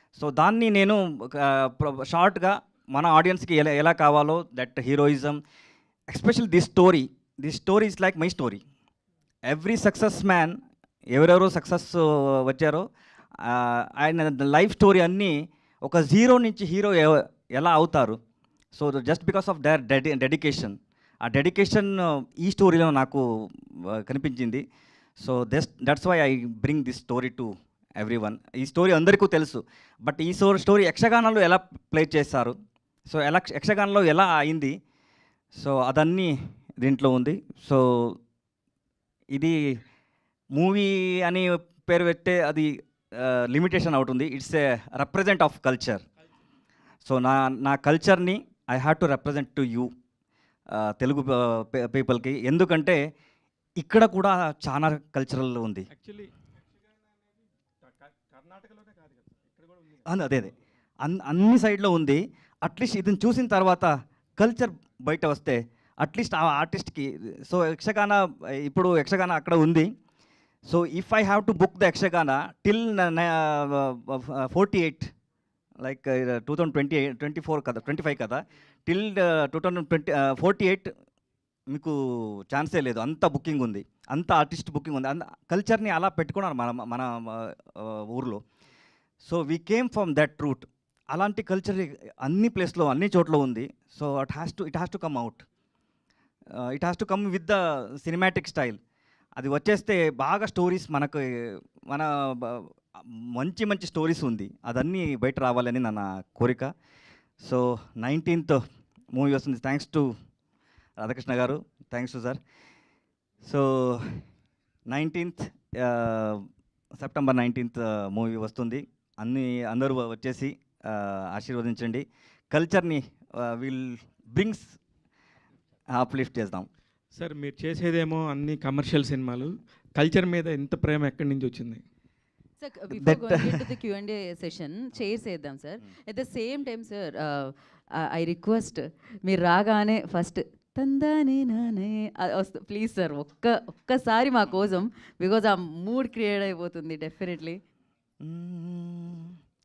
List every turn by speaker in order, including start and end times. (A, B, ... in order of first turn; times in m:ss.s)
0:00.2-0:05.4 A
0:06.1-0:08.6 A
0:09.5-0:10.6 A
0:11.1-0:12.9 A
0:13.4-0:18.2 A
0:18.7-0:24.6 A
0:25.2-0:32.6 A
0:33.1-0:34.8 A
0:35.5-0:38.2 A
0:39.3-0:39.8 A
0:40.6-0:46.0 A
0:47.0-0:49.9 A
0:50.7-0:53.0 A
0:53.8-0:55.9 A
0:55.9-0:56.3 B
0:57.8-1:00.0 B
1:00.1-1:09.9 A
1:10.7-1:15.1 A
1:15.8-1:20.9 A
1:21.7-1:28.4 A
1:29.2-1:35.5 A
1:36.6-1:38.8 A
1:39.4-1:46.7 A
1:47.4-1:48.6 A
1:49.1-1:50.1 A
1:51.0-1:52.4 A
1:53.4-1:54.2 A
1:54.9-1:56.4 A
1:57.0-2:04.8 A
2:05.9-2:06.7 A
2:07.1-2:11.8 B
2:12.6-2:27.6 C
2:12.9-2:13.7 A
2:28.2-2:29.4 A